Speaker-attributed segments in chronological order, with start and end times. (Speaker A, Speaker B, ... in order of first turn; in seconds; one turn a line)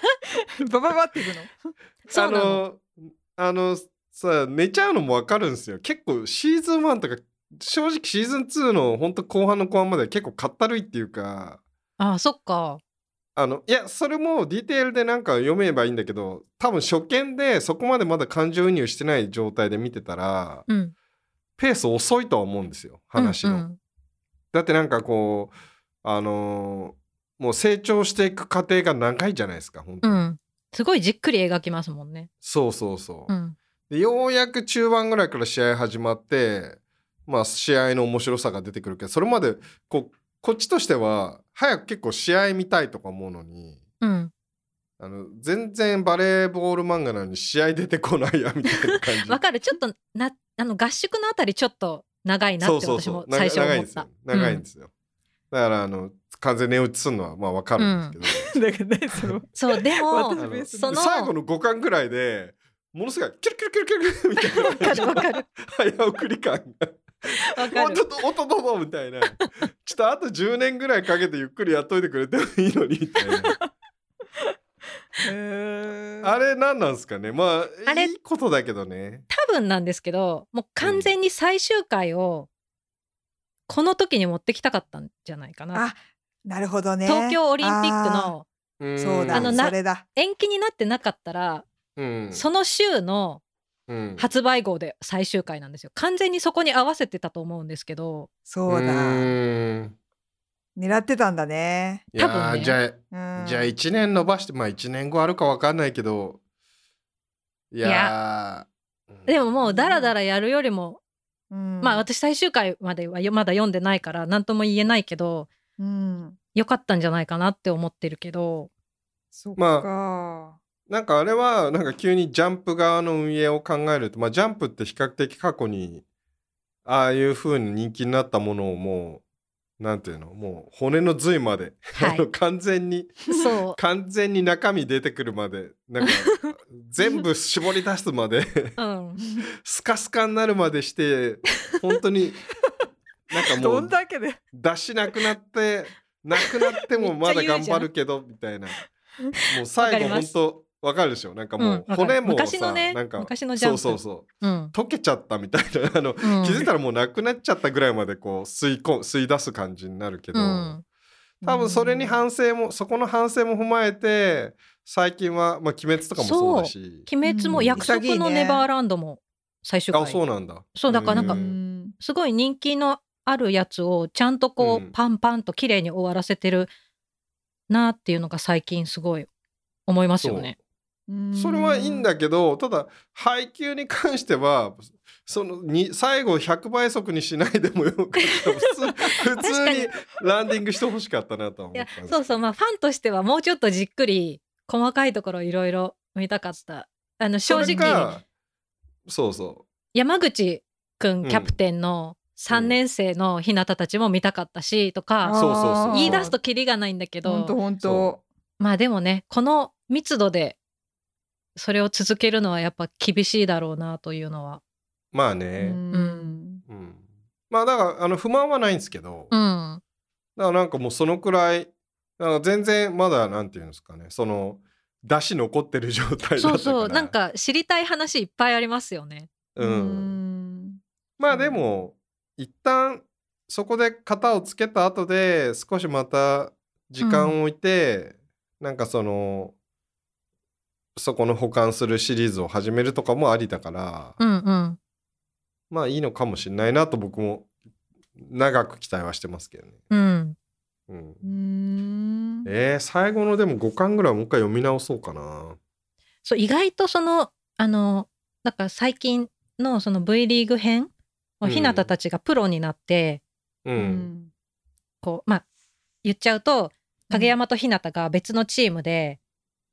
Speaker A: 0.6-1.6
Speaker B: 2.1-2.6
Speaker C: 2.1-11.6
Speaker B: 12.0-12.8
Speaker C: 13.4-20.7
Speaker B: 20.7-20.9
Speaker C: 21.6-23.6
Speaker B: 23.2-23.8
Speaker C: 24.5-25.5
Speaker C: 26.0-30.2
Speaker B: 30.0-32.3
Speaker C: 32.4-33.3
Speaker B: 33.3-33.6
Speaker C: 33.9-43.8
Speaker B: 44.0-44.3
Speaker C: 45.0-49.4
Speaker B: 49.3-54.6
Speaker C: 52.6-54.9
Speaker C: 55.5-58.5
Speaker B: 57.8-58.2
Speaker A: 58.3-61.0
Speaker B: 59.5-61.3
Speaker C: 60.4-73.5
Speaker B: 64.7-65.5
Speaker B: 67.5-68.0
Speaker A: 75.2-76.3
Speaker C: 76.2-79.3
Speaker B: 77.9-78.1
Speaker B: 79.3-82.5
Speaker C: 80.8-81.1
Speaker B: 83.7-85.8
Speaker A: 85.7-88.3
Speaker B: 87.1-88.5
Speaker C: 88.8-89.7
Speaker A: 89.0-90.0
Speaker B: 89.3-91.7
Speaker C: 92.0-92.4
Speaker B: 92.3-93.4
Speaker C: 93.9-94.3
Speaker B: 94.2-98.3
Speaker A: 98.5-99.3
Speaker C: 98.7-100.0
Speaker A: 100.8-102.1
Speaker C: 102.1-106.4
Speaker B: 102.2-102.8
Speaker A: 103.1-103.8
Speaker C: 107.7-109.4
Speaker B: 107.8-108.1
Speaker B: 109.3-111.0
Speaker A: 109.7-110.1
Speaker A: 111.5-112.0
Speaker B: 111.8-115.5
Speaker A: 115.8-116.4
Speaker B: 116.5-118.7
Speaker A: 119.3-120.6
Speaker C: 119.6-119.9
Speaker C: 120.9-126.0
Speaker C: 126.9-129.2
Speaker C: 129.8-138.8
Speaker B: 132.0-132.2
Speaker B: 133.3-133.8
Speaker B: 136.1-136.4
Speaker B: 138.8-139.2
Speaker A: 139.2-139.5
Speaker C: 139.6-142.4
Speaker C: 143.3-143.9
Speaker A: 143.5-144.4
Speaker C: 144.5-148.8
Speaker B: 147.0-147.9
Speaker C: 149.5-160.8
Speaker B: 149.8-150.3
Speaker B: 151.6-154.7
Speaker B: 156.2-156.7
Speaker B: 160.3-160.8
Speaker A: 161.4-162.2
Speaker C: 161.4-167.9
Speaker B: 166.2-170.2
Speaker A: 167.2-168.7
Speaker C: 169.9-171.6
Speaker B: 170.8-171.4
Speaker A: 171.1-172.0
Speaker B: 172.0-176.7
Speaker C: 174.6-174.9
Speaker B: 177.7-179.3
Speaker B: 179.9-180.6
Speaker C: 180.2-180.5
Speaker A: 181.1-182.1
Speaker C: 181.4-192.4
Speaker B: 189.4-189.9
Speaker B: 191.7-198.1
Speaker C: 197.5-198.2
Speaker C: 199.1-199.7
Speaker B: 199.9-207.6
Speaker C: 201.2-201.5
Speaker C: 202.5-202.8
Speaker A: 205.2-206.4
Speaker C: 205.3-206.3
Speaker A: 207.2-208.2
Speaker C: 207.8-208.1
Speaker B: 208.6-210.6
Speaker B: 211.6-214.6
Speaker C: 215.1-215.8
Speaker A: 215.6-216.6
Speaker B: 215.9-216.3
Speaker C: 216.7-219.3
Speaker B: 219.3-219.8
Speaker C: 220.4-227.1
Speaker B: 226.4-229.3
Speaker C: 229.6-230.2
Speaker A: 229.6-231.6
Speaker C: 231.2-239.6
Speaker B: 237.0-237.4
Speaker C: 241.0-244.2
Speaker B: 244.2-244.8
Speaker C: 245.7-247.5
Speaker C: 248.2-249.8
Speaker B: 249.9-250.4
Speaker C: 250.9-251.2
Speaker A: 251.2-252.5
Speaker C: 252.5-255.6
Speaker B: 256.2-263.2
Speaker C: 261.4-261.9
Speaker C: 263.6-264.1
Speaker A: 263.8-264.3
Speaker B: 265.0-265.4
Speaker B: 266.0-269.2
Speaker A: 267.1-267.4